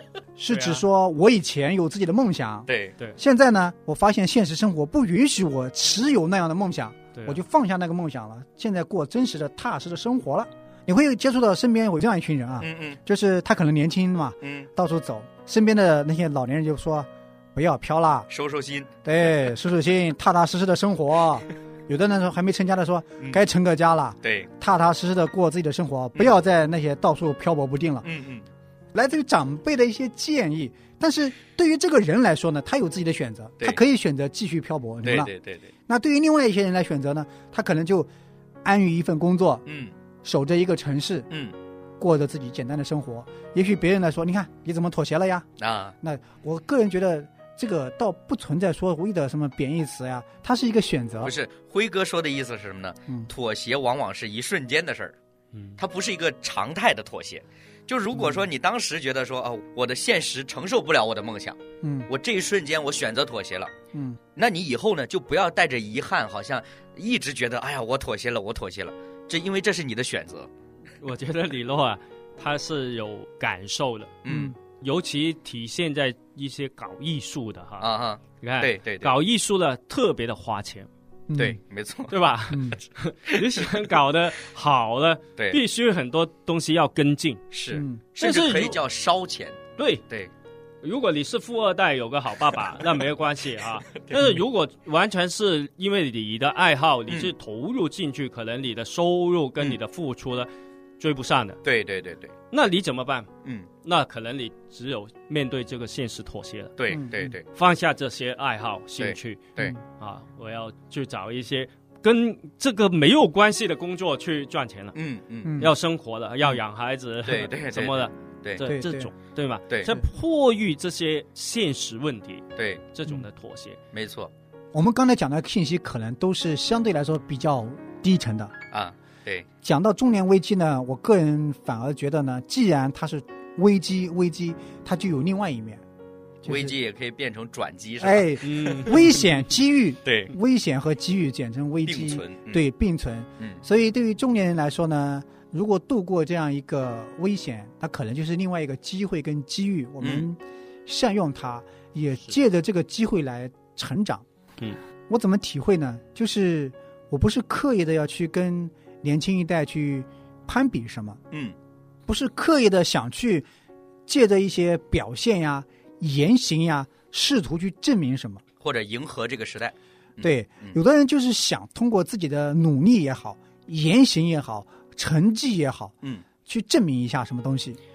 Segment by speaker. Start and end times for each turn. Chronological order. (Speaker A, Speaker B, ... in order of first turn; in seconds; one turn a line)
Speaker A: 0.4-18.3
Speaker B: 0.5-0.8
Speaker C: 2.7-3.0
Speaker B: 7.2-7.4
Speaker C: 12.6-13.0
Speaker C: 14.4-14.7
Speaker C: 18.3-18.9
Speaker A: 19.1-28.1
Speaker C: 24.2-24.5
Speaker C: 28.0-28.5
Speaker A: 28.9-35.3
Speaker C: 35.0-35.7
Speaker A: 35.9-38.1
Speaker A: 38.6-39.6
Speaker C: 39.7-39.9
Speaker A: 40.2-41.3
Speaker C: 41.3-41.5
Speaker A: 42.0-45.5
Speaker C: 45.6-45.9
Speaker A: 46.0-51.3
Speaker C: 51.2-55.1
Speaker B: 55.5-55.8
Speaker C: 55.8-63.7
Speaker A: 58.1-58.5
Speaker A: 61.8-62.1
Speaker A: 63.9-64.2
Speaker C: 64.4-70.5
Speaker B: 71.0-74.2
Speaker C: 74.2-74.5
Speaker A: 74.3-74.6
Speaker B: 74.8-77.9
Speaker C: 77.8-79.2
Speaker B: 78.4-80.9
Speaker A: 81.3-81.6
Speaker C: 81.4-82.1
Speaker B: 82.1-87.4
Speaker A: 82.5-82.8
Speaker C: 83.3-83.7
Speaker C: 87.5-89.6
Speaker A: 87.7-88.0
Speaker B: 88.2-88.8
Speaker B: 89.8-90.0
Speaker B: 90.8-101.6
Speaker C: 101.6-102.3
Speaker B: 102.5-103.3
Speaker B: 103.8-106.8
Speaker C: 106.8-107.4
Speaker A: 106.9-107.3
Speaker B: 107.5-115.0
Speaker C: 109.0-109.8
Speaker C: 115.0-115.6
Speaker A: 115.4-115.7
Speaker B: 115.6-123.8
Speaker C: 117.2-118.6
Speaker A: 118.6-119.1
Speaker C: 122.6-122.8
Speaker C: 123.9-124.3
Speaker A: 124.7-128.6
Speaker C: 128.7-129.5
Speaker A: 129.6-135.8
Speaker A: 136.4-136.8
Speaker C: 136.4-139.0
Speaker A: 138.0-154.2
Speaker B: 138.4-139.3
Speaker C: 140.1-140.3
Speaker C: 141.9-142.6
Speaker C: 150.0-150.3
Speaker A: 155.1-161.2
Speaker A: 162.1-163.5
Speaker A: 164.1-168.4
Speaker C: 168.6-170.8
Speaker A: 170.2-177.8